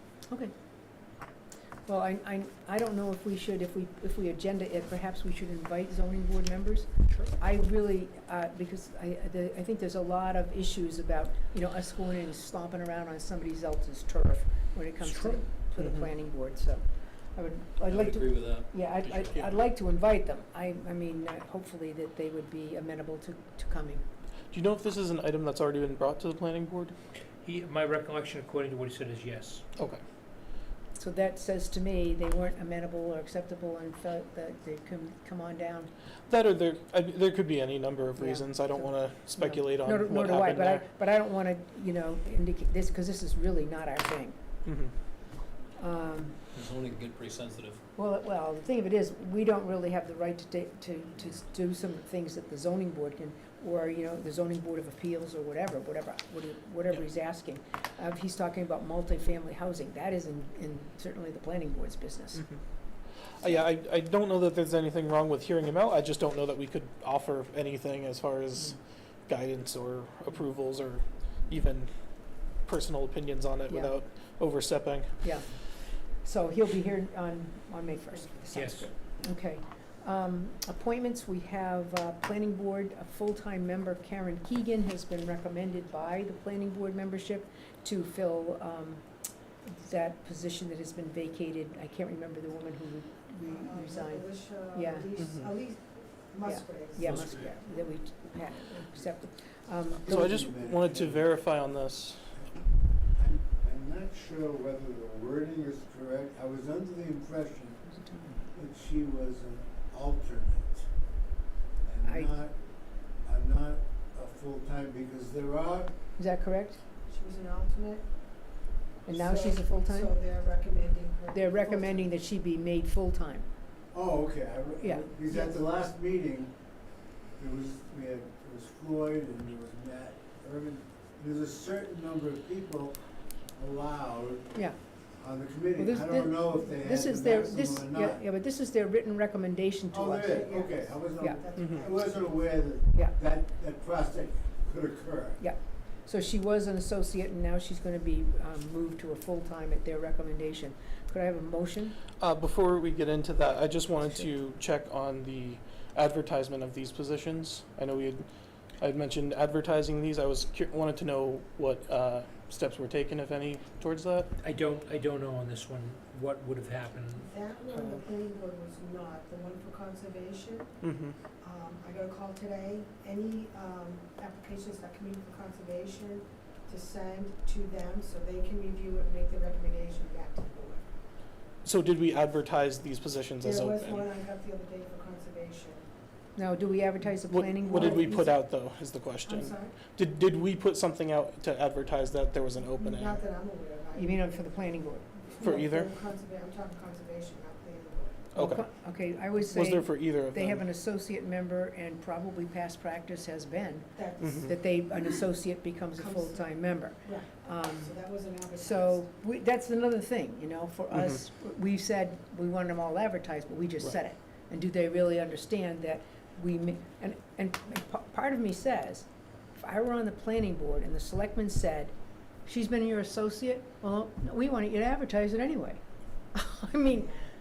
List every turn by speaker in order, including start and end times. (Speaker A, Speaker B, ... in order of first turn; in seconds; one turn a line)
Speaker A: 1.9-24.0
Speaker B: 15.1-15.4
Speaker C: 17.9-19.4
Speaker D: 24.5-26.9
Speaker B: 27.4-29.6
Speaker A: 30.9-35.9
Speaker D: 36.3-40.9
Speaker A: 38.2-44.3
Speaker D: 44.6-44.9
Speaker A: 45.8-46.4
Speaker C: 46.5-47.8
Speaker A: 48.0-62.5
Speaker D: 63.4-71.9
Speaker D: 72.5-75.2
Speaker A: 76.2-89.0
Speaker B: 78.5-78.9
Speaker A: 89.7-95.1
Speaker E: 93.5-97.5
Speaker A: 96.4-100.2
Speaker F: 100.0-101.3
Speaker D: 100.0-102.3
Speaker F: 102.4-107.9
Speaker A: 107.9-108.3
Speaker F: 108.5-110.9
Speaker F: 111.8-112.5
Speaker A: 112.0-112.3
Speaker F: 113.2-115.9
Speaker A: 116.2-116.8
Speaker E: 117.0-118.1
Speaker A: 119.0-120.1
Speaker E: 119.1-122.1
Speaker A: 121.3-123.5
Speaker F: 123.9-126.5
Speaker A: 124.8-125.1
Speaker F: 127.4-133.0
Speaker F: 133.5-134.5
Speaker F: 135.2-138.2
Speaker A: 135.8-140.5
Speaker F: 139.9-145.4
Speaker E: 140.2-142.3
Speaker A: 145.4-151.9
Speaker D: 152.2-158.3
Speaker D: 158.8-164.3
Speaker B: 164.4-167.3
Speaker E: 167.2-170.8
Speaker D: 170.8-171.2
Speaker E: 171.4-180.8
Speaker D: 181.6-184.1
Speaker E: 183.4-185.9
Speaker A: 186.3-188.3
Speaker D: 187.3-193.2
Speaker E: 187.6-188.3
Speaker E: 189.2-189.8
Speaker E: 192.7-198.3
Speaker A: 193.9-195.1
Speaker D: 195.4-195.9
Speaker D: 198.3-198.7
Speaker A: 198.3-207.9
Speaker D: 199.3-200.6
Speaker E: 203.9-204.5
Speaker D: 204.2-204.5
Speaker E: 205.9-209.1
Speaker A: 208.6-219.1
Speaker D: 210.9-211.2
Speaker A: 219.6-221.9
Speaker A: 222.4-225.8
Speaker A: 226.3-227.1
Speaker E: 226.9-227.3